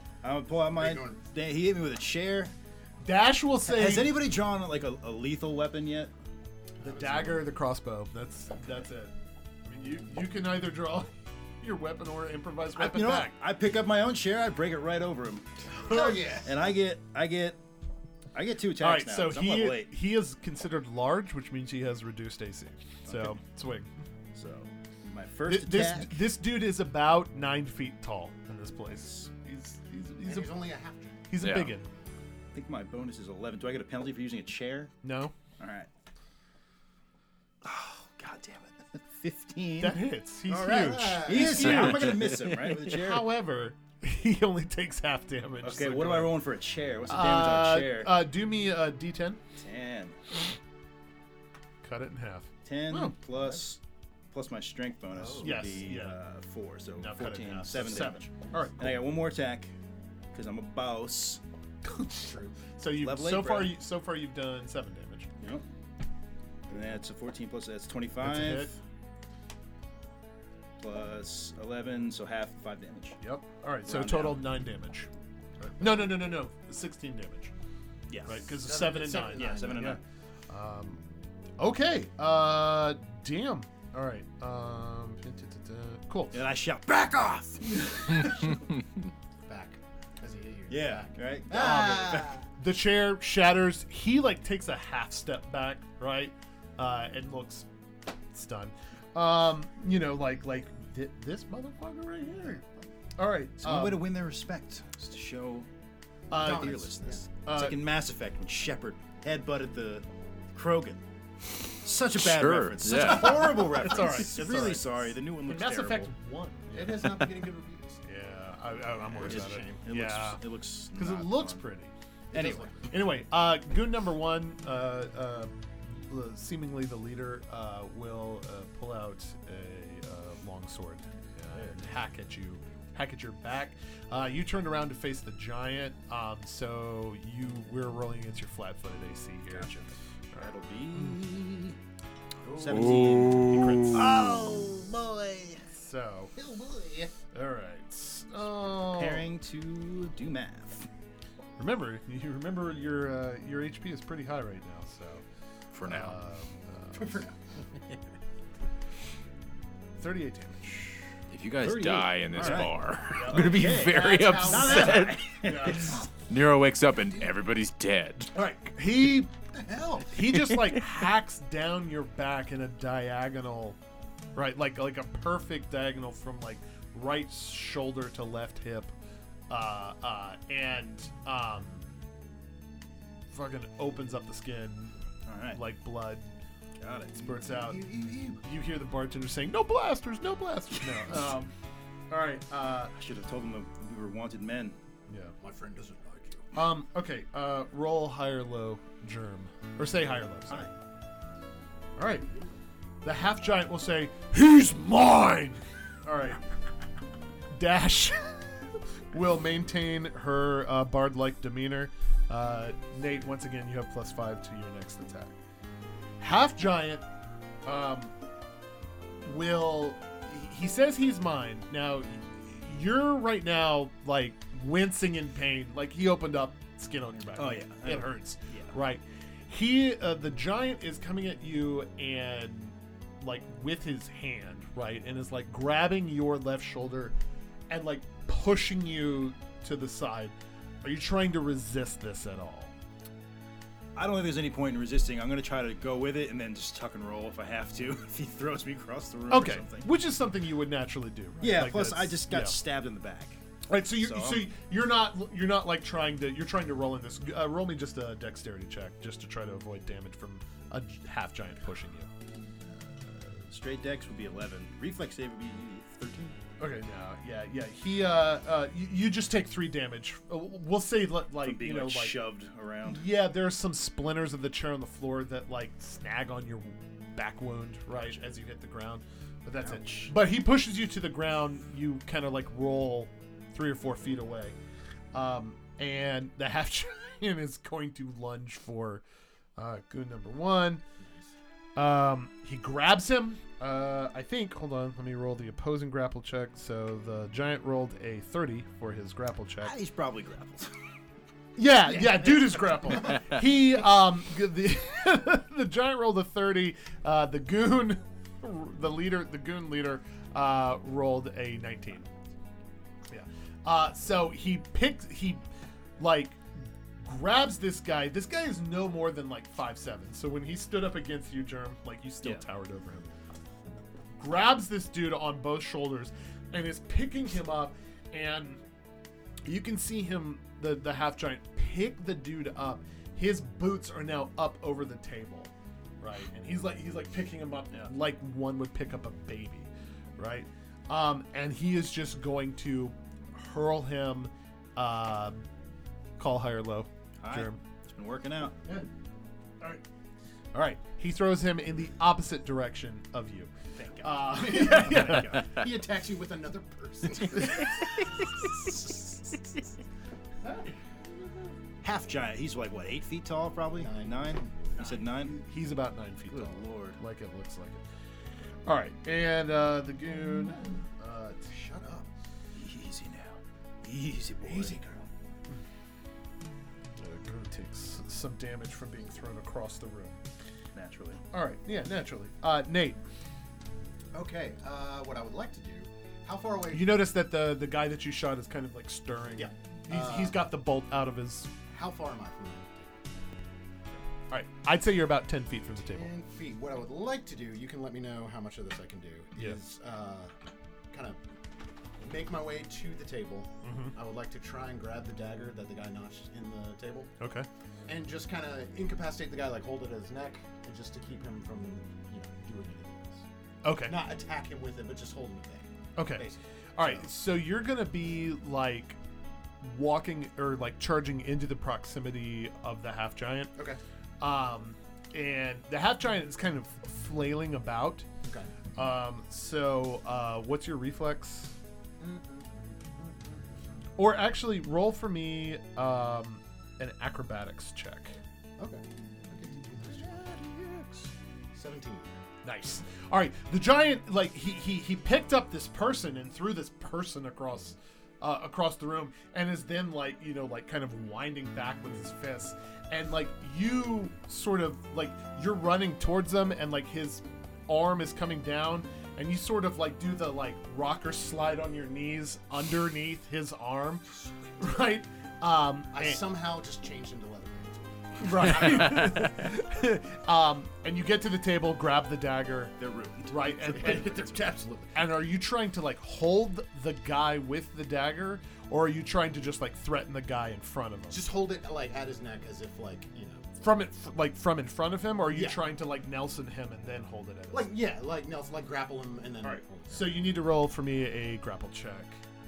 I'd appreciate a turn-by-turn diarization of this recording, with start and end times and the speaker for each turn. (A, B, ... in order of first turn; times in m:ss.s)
0:00.2-0:02.5 A
0:00.8-0:01.2 B
0:03.0-0:04.2 C
0:03.6-0:06.1 A
0:06.8-0:07.4 B
0:06.8-0:09.1 C
0:09.6-0:13.3 C
0:12.8-0:17.6 A
0:15.7-0:16.2 C
0:15.9-0:16.5 B
0:18.3-0:19.9 A
0:18.8-0:23.9 C
0:23.1-0:23.4 A
0:24.3-0:26.2 A
0:25.4-0:30.6 C
0:30.2-0:31.2 B
0:31.3-0:31.9 C
0:31.4-0:31.7 D
0:32.5-0:34.9 A
0:35.0-0:35.3 C
0:35.6-0:35.9 A
0:37.6-0:43.3 A
0:39.8-0:46.3 C
0:40.7-0:42.0 B
0:45.6-0:48.2 A
0:47.1-0:49.4 C
0:49.6-0:50.2 A
0:51.8-0:53.1 C
0:52.6-0:53.8 A
0:54.3-0:59.7 A
0:55.1-0:55.6 B
0:55.4-0:56.2 C
0:57.0-0:59.0 C
1:00.3-1:01.4 A
1:01.8-1:05.3 C
1:02.2-1:02.5 B
1:03.0-1:03.8 A
1:06.7-1:08.7 A
1:08.2-1:08.8 C
1:10.8-1:13.2 A
1:13.2-1:15.1 C
1:13.8-1:14.4 A
1:15.6-1:17.5 C
1:18.1-1:20.0 A
1:18.2-1:21.0 C
1:18.6-1:20.0 B
1:21.6-1:26.4 C
1:26.3-1:28.3 A
1:29.4-1:32.4 B
1:30.7-1:32.3 A
1:31.5-1:37.7 C
1:38.3-1:42.6 C
1:43.2-1:44.0 C
1:43.6-1:45.7 A
1:46.3-1:47.8 C
1:46.3-1:47.2 B
1:46.3-1:51.0 A
1:51.7-1:56.1 A
1:52.2-1:53.6 D
1:52.9-1:57.2 C
1:56.7-1:58.0 B
1:58.0-2:00.4 C
1:59.1-1:59.8 B
1:59.2-2:01.6 A
2:00.9-2:19.7 C
2:02.3-2:02.7 B
2:02.3-2:02.7 A
2:19.5-2:21.8 A
2:22.4-2:22.9 B
2:22.5-2:25.6 A
2:22.7-2:24.0 D
2:23.2-2:24.2 C
2:25.7-2:26.3 C
2:26.4-2:27.1 B
2:27.3-2:29.3 C
2:28.8-2:30.9 A
2:31.6-2:35.2 C
2:35.7-2:36.2 D
2:35.8-2:37.2 C
2:36.9-2:37.4 B
2:40.0-2:41.0 C
2:41.3-2:48.3 D
2:41.6-2:46.0 A
2:42.5-2:43.4 C
2:43.7-2:45.1 B
2:44.2-2:46.0 C
2:48.3-2:49.3 C
2:49.5-2:50.1 B
2:50.0-2:53.8 C
2:54.3-2:58.9 C
2:59.5-3:01.8 C
3:03.3-3:04.9 C
3:05.2-3:05.6 A
3:05.5-3:06.2 C
3:06.8-3:07.2 A
3:07.2-3:11.5 C
3:07.4-3:08.4 B
3:12.1-3:12.9 C
3:12.9-3:14.8 A
3:15.1-3:15.3 C
3:15.4-3:16.4 B
3:16.5-3:20.7 C
3:22.0-3:22.3 C
3:23.0-3:26.4 C
3:27.5-3:35.3 C
3:36.2-3:37.0 C
3:37.6-3:38.1 C
3:39.2-3:57.2 C
3:47.4-3:48.7 A
3:57.7-4:02.7 C
4:04.0-4:09.9 A
4:09.3-4:12.6 C
4:11.4-4:13.4 A
4:13.7-4:22.1 C
4:14.0-4:14.5 A
4:23.4-4:26.4 A
4:26.6-4:32.2 C
4:31.4-4:33.0 A
4:32.9-4:44.6 C
4:39.6-4:40.1 A
4:45.1-4:49.0 C
4:49.6-4:50.8 C
4:51.0-4:51.3 B
4:51.8-4:59.7 C
4:59.6-5:00.7 A
5:01.6-5:12.1 C
5:02.0-5:02.6 A
5:13.1-5:15.4 C
5:16.0-5:16.4 C
5:17.0-5:23.1 C
5:24.2-5:28.6 C
5:29.4-5:45.4 C
5:46.2-5:47.6 C
5:47.2-5:48.6 A
5:50.5-5:55.4 C
5:53.8-5:55.5 A
5:54.3-5:57.8 B
6:01.8-6:05.3 A
6:03.8-6:04.9 B
6:05.2-6:07.8 C
6:06.3-6:07.0 A
6:08.6-6:11.5 C
6:11.5-6:12.1 B
6:12.5-6:14.9 A
6:14.4-6:15.0 B
6:17.0-6:20.2 C
6:20.7-6:21.2 A
6:21.3-6:23.0 C
6:24.1-6:27.0 B
6:26.7-6:31.5 C
6:29.4-6:30.4 B
6:31.7-6:33.0 B
6:34.3-6:36.1 C
6:35.8-6:40.3 B
6:40.9-6:41.2 B
6:42.0-6:47.1 B
6:43.6-6:43.9 C
6:47.2-6:47.5 C
6:47.9-6:53.2 B
6:53.6-6:54.0 C
6:53.8-6:57.0 B
6:56.0-6:59.0 C
6:59.6-7:03.5 C
7:04.2-7:08.0 C
7:08.2-7:08.5 B
7:08.7-7:11.6 C
7:12.0-7:13.6 B
7:14.0-7:18.2 C
7:18.6-7:22.3 B
7:22.4-7:44.0 C
7:44.6-7:46.2 C
7:45.9-7:49.2 B
7:48.2-7:52.7 C
7:52.8-7:54.0 A
7:53.3-8:01.2 C
7:53.4-7:55.0 B
8:01.1-8:03.5 B
8:03.6-8:07.7 C
8:05.3-8:05.6 B
8:07.5-8:10.2 B
8:09.4-8:12.2 C